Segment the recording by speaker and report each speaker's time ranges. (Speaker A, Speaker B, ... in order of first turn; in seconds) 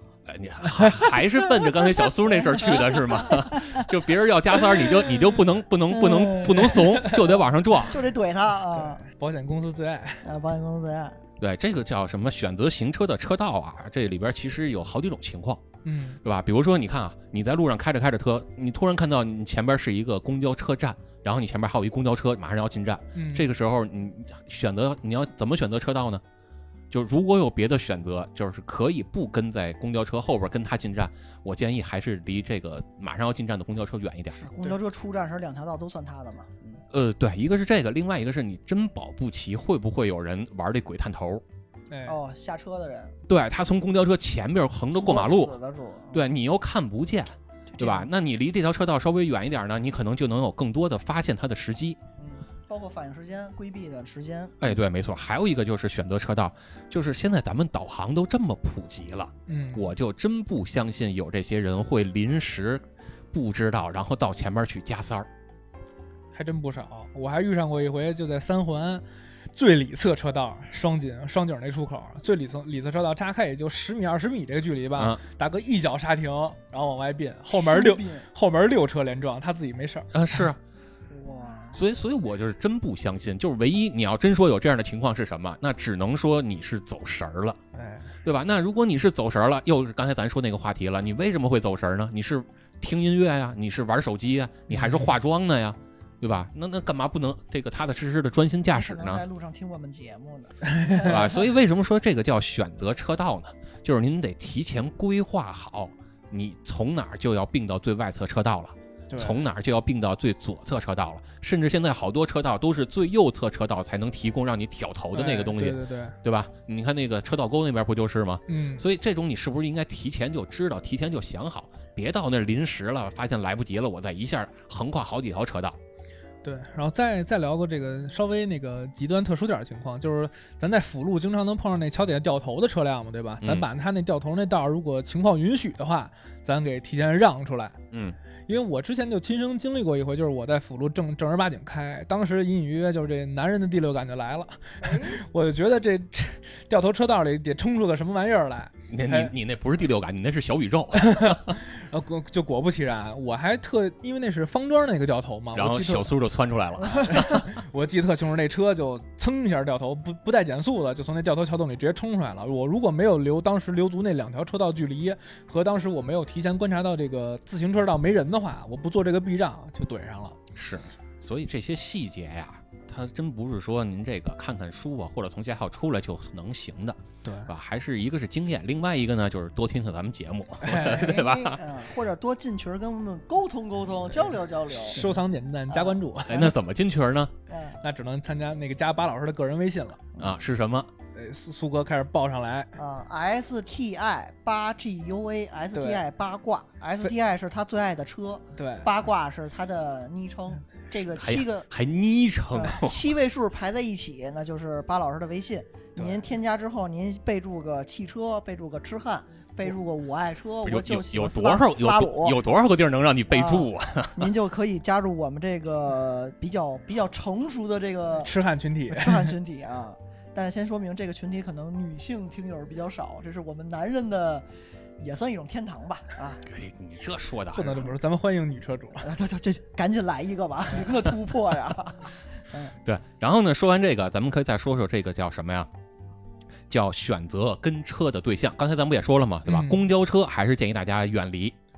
Speaker A: 0.3-8.0, 11.4-15.6, 16.2-26.2, 26.9-34.4, 36.9-41.4, 43.3-45.5, 46.1-52.0, 54.6-65.3, 75.0-75.2, 80.1-80.6, 81.7-87.6, 88.2-99.2, 101.0-125.8, 133.4-133.7, 137.9-138.2, 148.9-151.6, 155.5-157.4, 170.6-181.6, 186.3-187.3, 190.2-190.9, 201.1-203.1, 210.6-214.3, 226.4-227.9, 232.8-235.7, 236.7-241.6
Speaker B: 0.6-1.1, 9.0-10.2, 15.8-16.2, 23.2-23.5, 41.9-42.2, 59.5-59.9, 66.3-80.5, 87.7-88.1, 94.7-95.1, 109.1-109.4, 115.1-116.2, 118.5-118.8, 126.4-137.8, 138.5-149.3, 150.9-156.1, 157.1-170.4, 177.2-177.5, 180.6-181.2, 184.8-186.5, 187.8-190.1, 191.1-192.7, 195.7-196.0, 198.6-198.9, 218.2-219.3, 227.5-229.1, 239.4-239.8
Speaker C: 2.4-2.8, 5.9-6.8, 7.9-9.0, 10.2-11.2, 34.4-36.8, 42.1-43.2, 44.9-46.2, 47.7-48.1, 52.2-54.8, 77.5-78.3, 81.1-81.8, 98.7-101.4, 144.8-145.2, 180.8-185.1, 185.7-186.0, 187.5-187.8, 192.8-201.7, 202.5-212.4, 213.3-218.3, 218.9-224.4, 225.0-226.4, 229.0-232.7